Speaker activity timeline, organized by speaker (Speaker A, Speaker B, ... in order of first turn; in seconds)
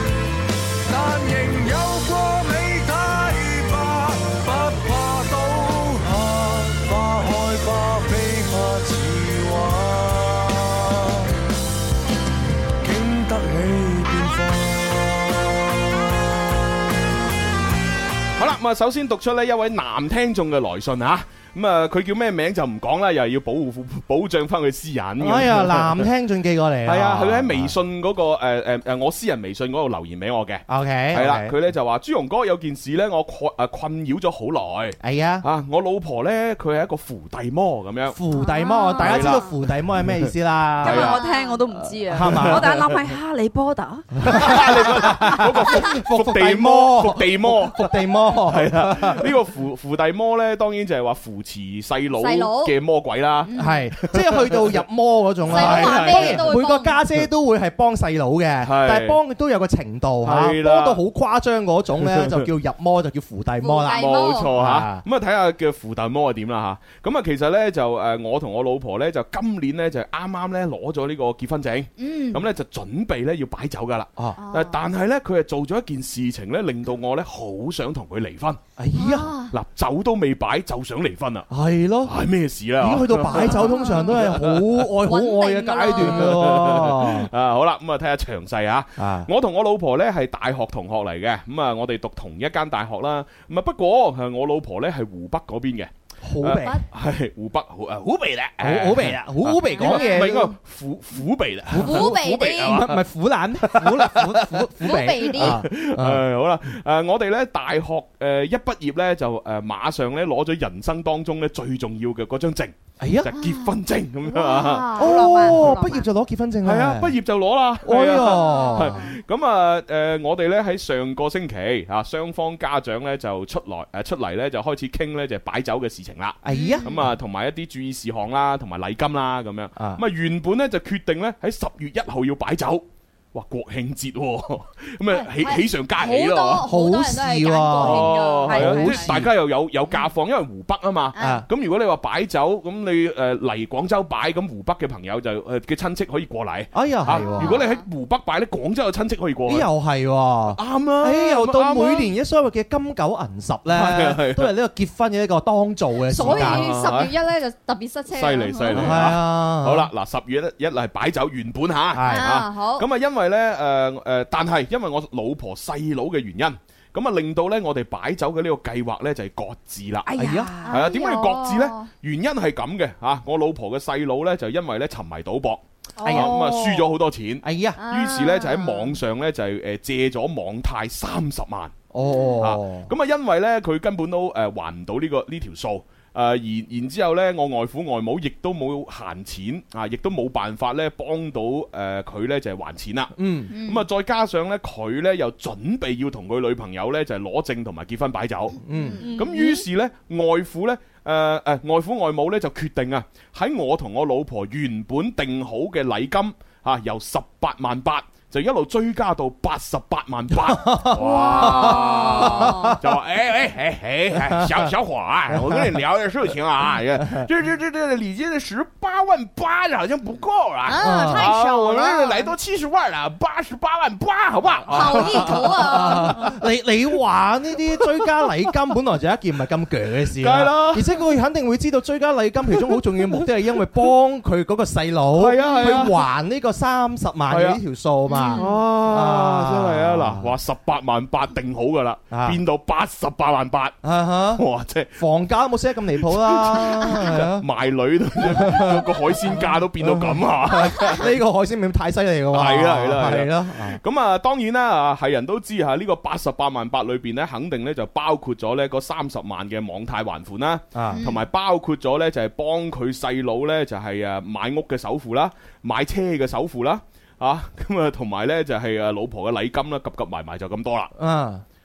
Speaker A: 0.8-11.1, 12.8-14.7
Speaker B: 18.4-26.1, 26.8-38.2, 39.0-40.3, 40.8-41.2, 42.1-43.0, 44.3-54.8, 55.5-56.5, 58.6-59.2, 60.2-61.0, 62.0-62.5, 63.9-78.6, 79.5-81.5, 82.0-84.9, 85.9-103.0, 103.6-115.7, 116.6-136.7, 137.8-149.7, 150.6-152.1, 153.7-154.5, 156.2-157.1, 158.1-181.7, 182.4-198.6, 199.1-226.3, 227.8-228.3, 230.2-230.9, 232.6-233.2, 235.1-236.0, 237.3-237.6, 238.3-243.8, 244.3-245.0, 246.0-251.1, 252.3-270.9
Speaker C: 25.2-27.7, 30.7-31.5, 35.0-35.5, 38.1-41.1, 42.1-42.6, 44.2-49.3, 53.6-65.0, 78.8-79.3, 81.5-82.1, 82.8-87.3, 89.0-89.3, 96.2-96.8, 98.6-100.5, 101.7-106.2, 113.0-113.3, 115.0-117.1, 117.8-119.0, 126.4-127.1, 129.8-130.0, 136.6-139.3, 141.2-141.4, 146.7-147.6, 149.5-156.7, 158.7-159.9, 161.9-162.2, 170.2-170.5, 176.0-176.5, 177.4-177.8, 181.9-182.9, 193.2-193.5, 198.7-199.1, 210.4-212.8, 214.2-214.7, 215.3-215.8, 217.0-217.3, 220.8-221.3, 224.8-240.3, 242.1-242.4, 243.8-244.4, 244.9-247.5, 248.2-253.8, 260.7-261.1, 271.0-271.4
Speaker D: 38.3-39.4, 41.0-41.6, 52.2-52.7, 53.4-53.9, 55.5-57.0, 63.6-64.5, 72.0-72.4, 74.4-74.8, 78.9-79.5, 83.3-84.2, 85.0-86.3, 96.5-96.8, 99.6-100.2, 101.7-102.8, 104.8-105.6, 113.3-113.7, 114.3-115.5, 118.1-119.1, 126.5-126.9, 135.1-139.1, 141.1-141.4, 147.1-147.8, 156.1-159.0, 162.0-162.8, 170.7-171.9, 176.0-176.9, 177.8-178.9, 182.0-182.4, 193.5-193.8, 198.8-199.1, 211.0-212.8, 220.7-222.3, 224.7-226.4, 238.1-238.5, 260.9-261.2
Speaker E: 40.8-44.6, 114.9-116.0, 138.5-139.0, 170.1-170.9, 199.0-199.6